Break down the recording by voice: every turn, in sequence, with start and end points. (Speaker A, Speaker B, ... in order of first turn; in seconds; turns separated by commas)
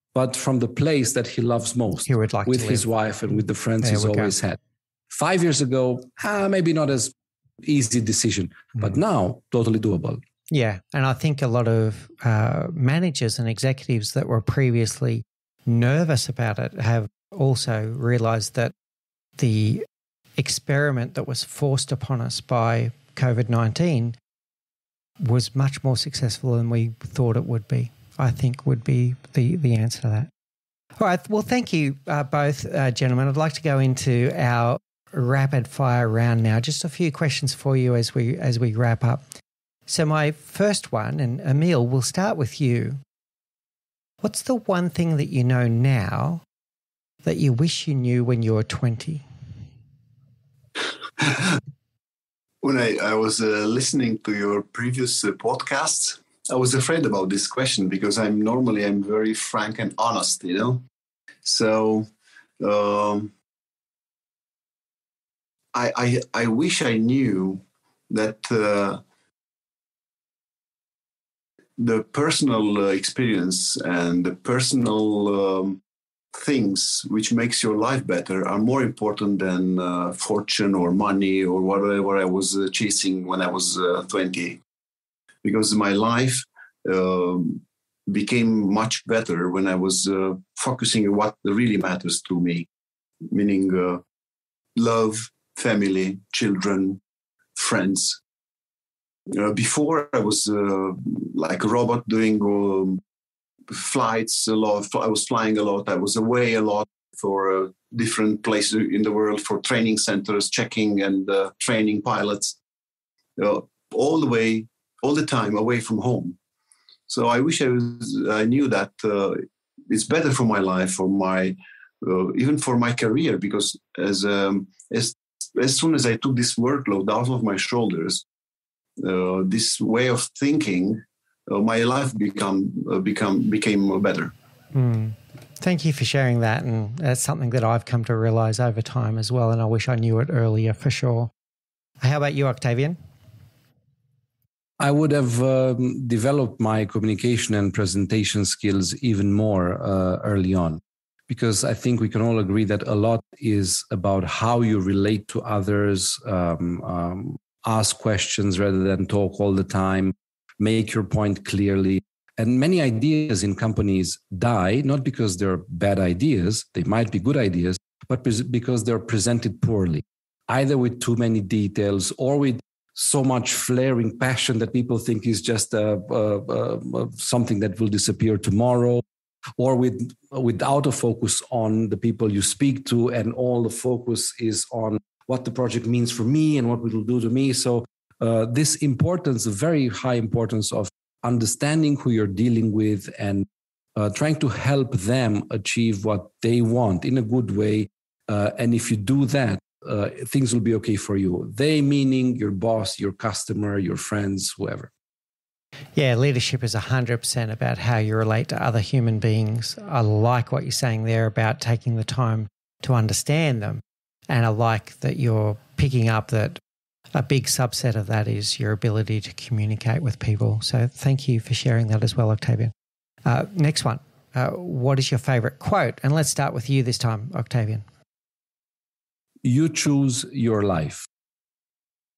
Speaker A: 0.1-4.6, Speaker B: 2.1-2.9, Speaker B: 3.8-4.3, Speaker A: 5.1-10.2, Speaker B: 10.5-18.7, Speaker B: 19.4-19.9, Speaker B: 20.4-24.2, Speaker B: 25.2-30.3, Speaker B: 31.0-39.2, Speaker B: 39.9-43.0, Speaker B: 44.2-46.4, Speaker B: 47.2-49.2, Speaker C: 51.2-51.5, Speaker C: 52.6-60.8, Speaker C: 61.4-62.1, Speaker C: 62.6-63.3, Speaker C: 65.7-69.0, Speaker C: 71.8-75.8, Speaker C: 76.3-84.6, Speaker C: 85.4-92.7, Speaker C: 93.3-94.0, Speaker C: 94.8-97.0, Speaker C: 97.6-98.2, Speaker C: 99.3-103.0, Speaker C: 103.7-112.6, Speaker C: 113.4-116.4, Speaker C: 117.1-128.2, Speaker C: 129.0-134.3, Speaker B: 134.7-141.3, Speaker B: 142.0-143.0, Speaker A: 144.8-179.0, Speaker A: 179.6-204.9, Speaker B: 205.9-216.6, Speaker B: 217.1-222.7, Speaker B: 223.2-227.8, Speaker A: 229.4-231.1